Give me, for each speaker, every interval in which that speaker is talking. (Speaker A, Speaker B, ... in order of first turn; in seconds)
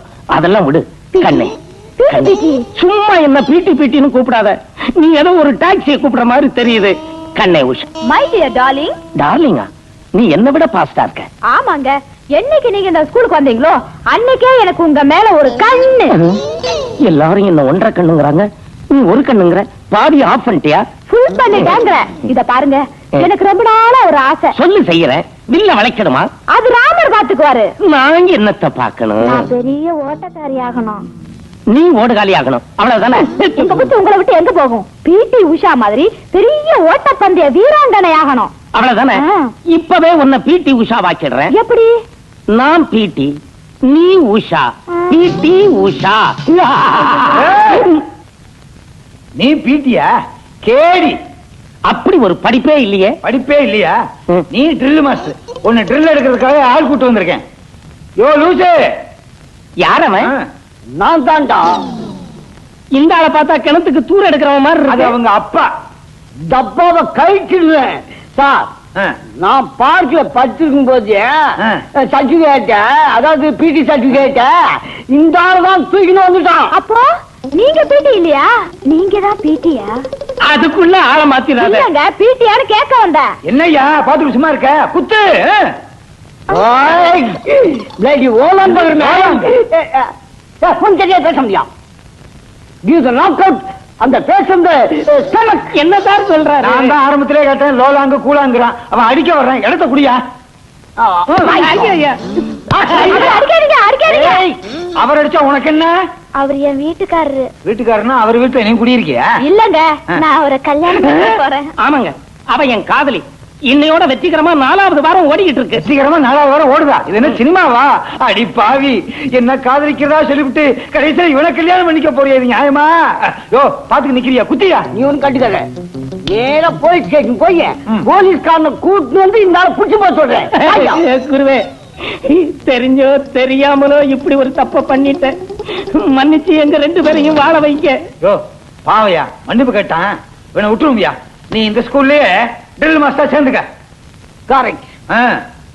Speaker A: 0.3-1.5, 2.1-7.8, 9.2-11.3, 17.1-20.8, 24.5-26.3, 27.8-29.5, 31.7-33.3, 38.7-41.5, 42.5-43.3, 43.9-48.0, 51.9-53.1, 59.8-60.3, 62.9-65.2, 80.4-81.9, 95.6-97.0, 101.3-102.2, 102.8-103.3, 111.8-115.8, 130.5-137.9
Speaker B: 1.1-2.6, 8.1-8.9, 11.5-16.2, 21.1-24.5, 26.5-27.7, 29.2-31.0, 33.3-38.5, 39.1-39.5, 41.5-41.9, 76.7-80.0, 81.6-83.3, 101.4-101.7, 103.0-104.4, 106.4-107.5, 109.4-111.7
Speaker C: 47.3-47.9, 49.4-50.1, 50.6-51.1, 53.2-53.9, 54.5-57.4, 58.2-58.7, 64.9-65.7, 83.5-85.6, 88.8-89.5, 96.6-100.2, 105.0-105.9, 107.6-109.2, 115.8-124.9, 138.2-143.6, 145.1-145.3
Speaker D: 60.9-61.7, 66.5-68.7, 69.4-71.3, 72.0-76.7, 86.5-90.1, 90.6-91.7, 92.8-95.6, 101.0-101.8, 102.7-103.4, 104.1-104.5, 124.9-125.7, 126.2-131.0, 144.5-144.9